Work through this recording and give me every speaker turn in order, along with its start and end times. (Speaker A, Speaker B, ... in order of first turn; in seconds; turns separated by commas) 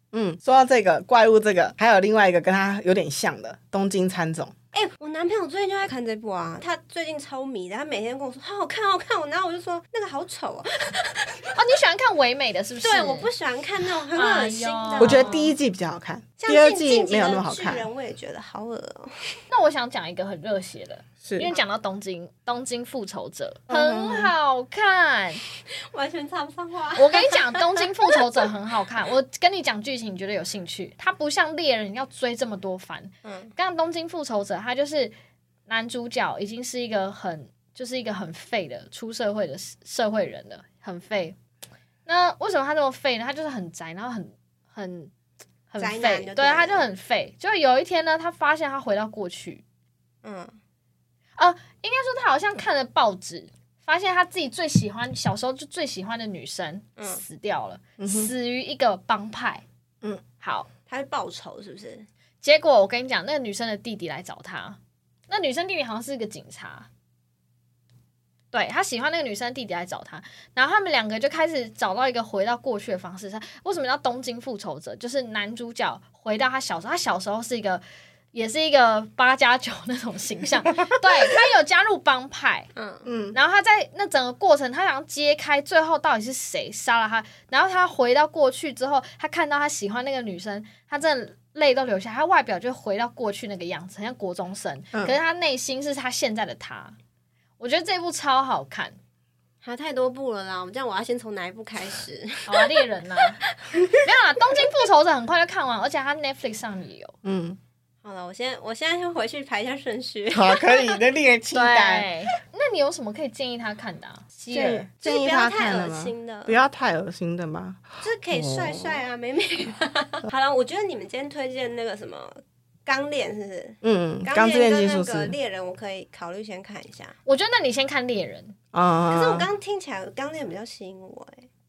Speaker A: 0.1-4.5, Speaker B: 4.7-11.6, Speaker C: 11.5-13.3, Speaker B: 12.8-15.5, Speaker C: 14.1-15.5, Speaker A: 15.0-17.9, Speaker B: 16.4-19.4, Speaker C: 19.5-25.4, Speaker A: 21.2-21.5, Speaker A: 23.7-24.3, Speaker B: 25.7-28.2, Speaker C: 27.0-35.1, Speaker B: 33.2-33.5, Speaker C: 35.7-41.4, Speaker C: 42.1-45.1, Speaker C: 45.7-49.6, Speaker B: 45.8-46.9, Speaker B: 50.2-50.6, Speaker C: 51.4-59.6, Speaker A: 58.0-58.3, Speaker C: 60.4-60.7, Speaker B: 60.9-62.1, Speaker C: 62.4-64.8, Speaker C: 65.3-66.9, Speaker C: 68.5-82.7, Speaker B: 82.8-83.1, Speaker A: 83.0-83.4, Speaker C: 83.3-97.0, Speaker C: 97.6-99.0, Speaker B: 99.6-102.9, Speaker C: 102.5-103.4, Speaker C: 104.0-107.2, Speaker A: 107.2-107.6, Speaker B: 108.0-110.9, Speaker A: 110.3-112.1, Speaker C: 111.5-114.9, Speaker A: 114.5-119.0, Speaker B: 114.5-116.6, Speaker B: 118.0-127.2, Speaker A: 123.8-125.4, Speaker C: 127.3-128.6, Speaker A: 128.7-129.5, Speaker B: 129.1-131.5